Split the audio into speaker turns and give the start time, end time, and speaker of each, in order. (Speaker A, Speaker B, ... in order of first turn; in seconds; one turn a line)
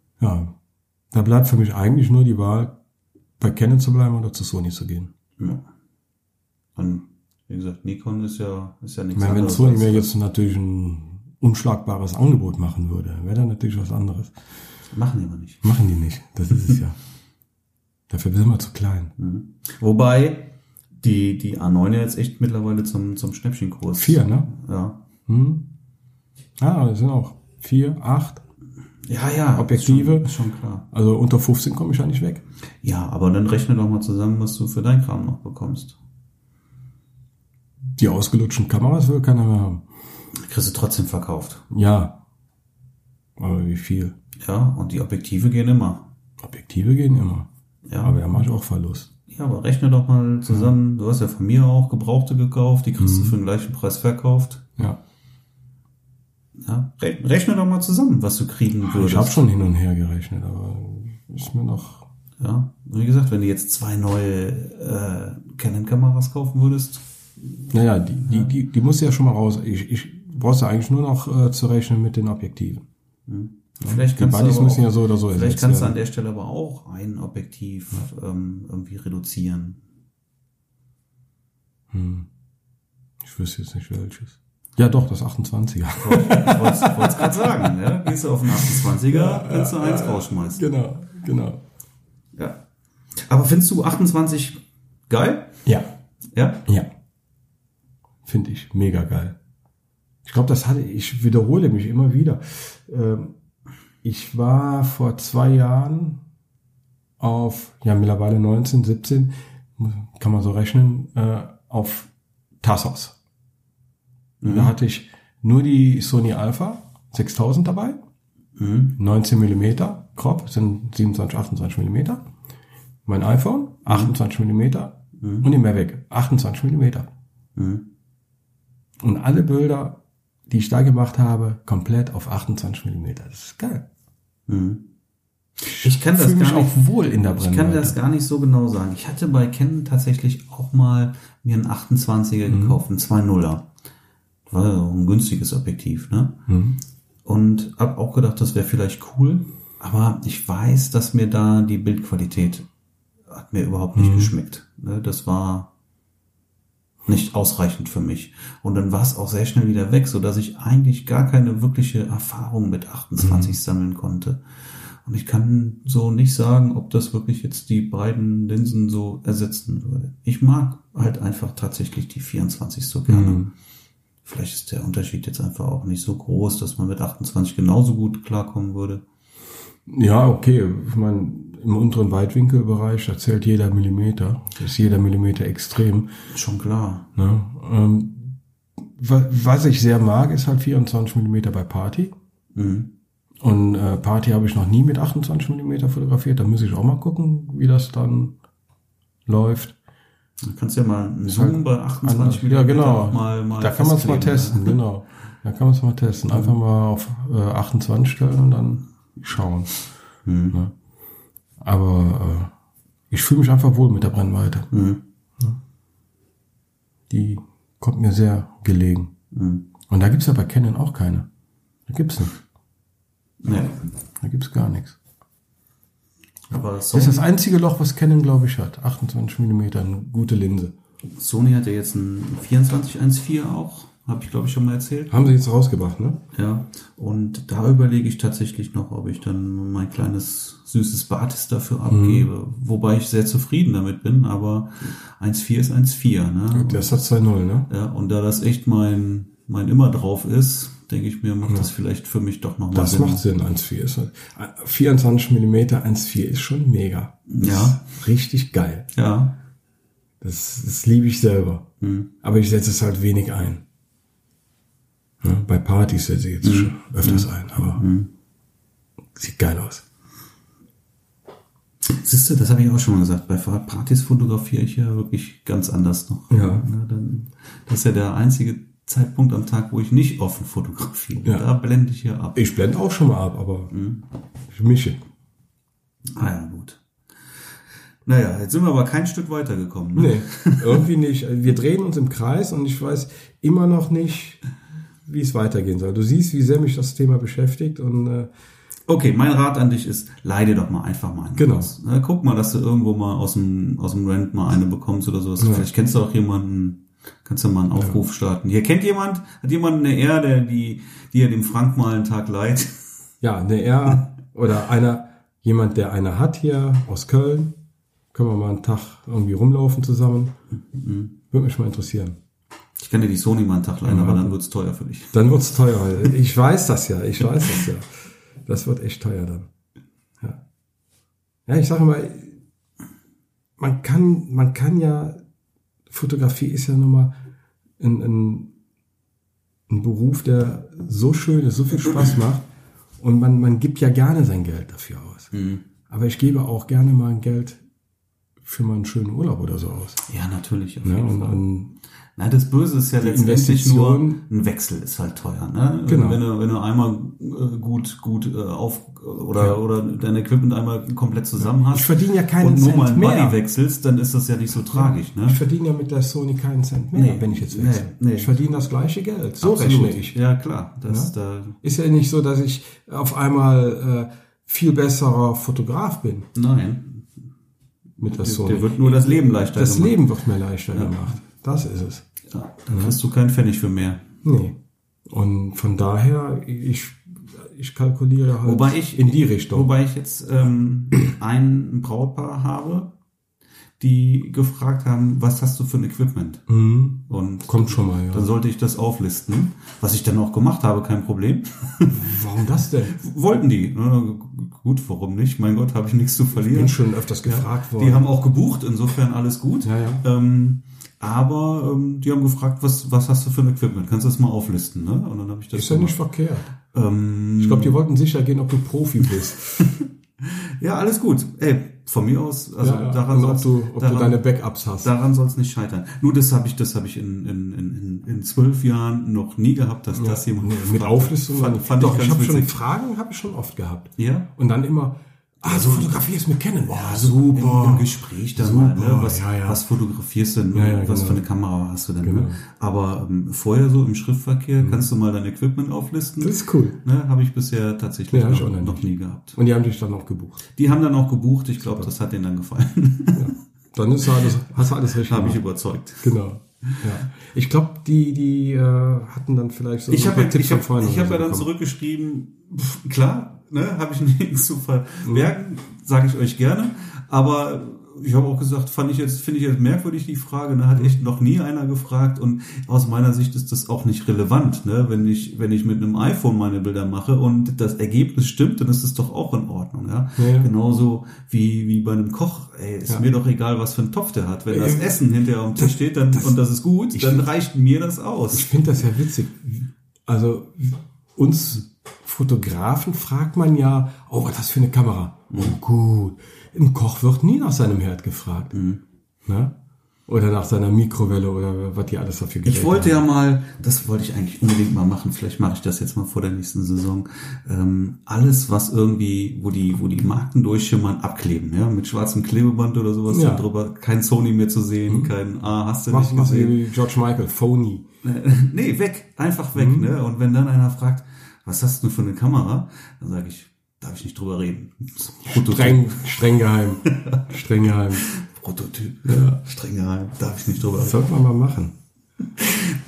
Speaker A: 0.2-0.5
Speaker A: 1.1-2.8
Speaker A: 3.4-5.1
Speaker B: 5.4-5.6
Speaker B: 6.8-10.1
Speaker A: 9.1-14.3
Speaker B: 14.9-15.6
Speaker A: 15.6-17.0
Speaker A: 18.1-19.1
Speaker B: 19.2-25.0
Speaker A: 23.9-24.5
Speaker A: 25.3-25.7
Speaker A: 26.6-28.4
Speaker B: 29.1-30.9
Speaker A: 29.6-30.4
Speaker A: 30.9-32.4
Speaker B: 32.8-36.0
Speaker A: 38.0-39.9
Speaker B: 40.4-41.6
Speaker A: 41.7-42.2
Speaker A: 43.4-44.1
Speaker B: 44.4-46.1
Speaker A: 46.4-47.5
Speaker B: 47.9-48.2
Speaker A: 48.0-49.1
Speaker B: 49.3-54.6
Speaker A: 53.0-53.4
Speaker B: 56.6-59.4
Speaker A: 58.8-62.1
Speaker B: 62.4-67.0
Speaker A: 67.7-72.8
Speaker B: 73.3-79.8
Speaker A: 73.8-76.0
Speaker A: 81.9-82.3
Speaker A: 83.2-87.7
Speaker B: 86.0-90.6
Speaker A: 88.6-91.6
Speaker B: 92.4-92.6
Speaker B: 93.3-95.6
Speaker B: 96.3-96.6
Speaker A: 98.2-99.4
Speaker A: 100.2-103.3
Speaker A: 104.0-106.2
Speaker A: 107.2-112.1
Speaker A: 112.6-113.1
Speaker B: 114.4-114.7
Speaker A: 114.4-118.0
Speaker B: 118.6-119.0
Speaker A: 119.0-122.2
Speaker A: 123.1-127.1
Speaker B: 123.9-124.1
Speaker B: 125.2-125.5
Speaker B: 127.6-127.9
Speaker A: 129.0-133.9
Speaker B: 134.5-134.9
Speaker B: 135.7-143.7
Speaker A: 135.8-138.0
Speaker A: 142.5-142.8
Speaker B: 144.5-146.4
Speaker A: 146.5-146.8
Speaker B: 147.2-152.7
Speaker B: 153.3-155.7
Speaker A: 153.9-154.3
Speaker B: 157.1-164.4
Speaker A: 163.2-163.6
Speaker B: 165.0-173.4
Speaker A: 173.1-173.5
Speaker B: 174.2-179.0
Speaker A: 179.9-186.1
Speaker B: 186.3-187.1
Speaker A: 187.2-192.1
Speaker B: 192.6-192.9
Speaker A: 193.4-198.3
Speaker A: 199.3-199.8
Speaker B: 200.4-204.8
Speaker A: 201.3-209.7
Speaker B: 210.3-210.6
Speaker A: 211.6-212.5
Speaker A: 213.1-214.7
Speaker B: 214.7-215.0
Speaker A: 217.1-219.1
Speaker B: 219.3-219.7
Speaker A: 219.9-221.3
Speaker A: 221.9-222.4
Speaker B: 223.4-223.8
Speaker A: 224.2-225.0
Speaker B: 226.5-227.3
Speaker A: 226.9-230.7
Speaker B: 231.2-235.3
Speaker A: 235.1-236.2
Speaker B: 236.3-247.1
Speaker A: 241.9-242.3
Speaker A: 246.5-247.7
Speaker B: 247.7-253.2
Speaker A: 252.7-258.9
Speaker B: 257.3-257.9
Speaker B: 258.9-259.3
Speaker A: 260.2-261.7
Speaker B: 261.8-262.1
Speaker A: 262.2-263.6
Speaker A: 265.2-267.8
Speaker B: 266.4-268.1
Speaker A: 269.2-269.8
Speaker B: 271.8-282.4
Speaker A: 276.3-276.7
Speaker A: 282.4-283.7
Speaker B: 283.7-284.0
Speaker A: 284.5-285.0
Speaker B: 286.1-286.8
Speaker B: 288.1-290.9
Speaker A: 289.9-294.4
Speaker A: 295.1-298.3
Speaker B: 298.9-312.9
Speaker A: 301.4-301.7
Speaker A: 305.4-305.7
Speaker A: 307.7-308.0
Speaker A: 313.2-317.6
Speaker A: 318.1-320.3
Speaker B: 320.6-321.1
Speaker A: 321.3-322.2
Speaker B: 322.8-325.2
Speaker A: 323.9-324.4
Speaker A: 325.1-327.9
Speaker A: 328.4-329.5
Speaker A: 331.4-332.4
Speaker A: 333.6-335.2
Speaker A: 335.9-337.1
Speaker A: 337.8-338.5
Speaker A: 339.7-342.4
Speaker A: 343.0-345.3
Speaker B: 345.3-345.6
Speaker A: 345.9-347.6
Speaker A: 348.4-350.0
Speaker B: 350.1-351.4
Speaker A: 350.8-351.7
Speaker B: 352.2-365.4
Speaker A: 353.0-354.2
Speaker A: 355.9-356.2
Speaker A: 361.4-363.4
Speaker A: 364.7-370.2
Speaker B: 366.9-368.4
Speaker B: 369.4-371.6
Speaker A: 370.9-376.3
Speaker B: 376.4-377.1
Speaker B: 378.0-380.0
Speaker A: 378.0-382.1
Speaker B: 382.3-384.0
Speaker A: 382.7-382.9
Speaker A: 384.2-384.6
Speaker A: 385.1-389.7
Speaker B: 388.4-392.9
Speaker B: 393.8-396.5
Speaker A: 396.5-398.3
Speaker B: 397.1-402.2
Speaker A: 401.9-403.0
Speaker B: 402.8-416.0
Speaker A: 406.3-408.1
Speaker A: 409.6-410.0
Speaker A: 415.5-416.5
Speaker B: 416.6-417.8
Speaker A: 417.4-419.7
Speaker B: 419.6-424.2
Speaker A: 422.6-424.9
Speaker B: 424.8-432.6
Speaker A: 429.9-439.6
Speaker B: 434.0-434.3
Speaker B: 435.4-436.0
Speaker B: 436.7-449.4
Speaker A: 440.5-441.2
Speaker A: 442.0-442.4
Speaker A: 444.6-444.9
Speaker A: 446.2-446.8
Speaker A: 448.1-448.9
Speaker A: 449.4-450.5
Speaker B: 450.6-453.4
Speaker A: 451.6-451.9
Speaker A: 453.1-455.4
Speaker B: 454.9-456.1
Speaker A: 456.0-461.5
Speaker B: 459.9-488.5
Speaker A: 465.1-465.3
Speaker A: 480.2-480.5
Speaker A: 484.5-484.9
Speaker A: 485.6-486.3
Speaker A: 486.9-487.3
Speaker A: 488.3-498.5
Speaker B: 495.3-495.6
Speaker B: 498.5-498.8
Speaker A: 499.2-499.6
Speaker A: 500.1-503.0
Speaker B: 502.4-516.6
Speaker A: 513.1-513.5
Speaker A: 514.9-515.1
Speaker A: 515.9-517.9
Speaker B: 518.0-526.2
Speaker A: 519.5-519.9
Speaker A: 525.2-528.0
Speaker B: 526.8-531.1
Speaker A: 529.0-529.4
Speaker A: 530.7-531.8
Speaker B: 532.4-532.8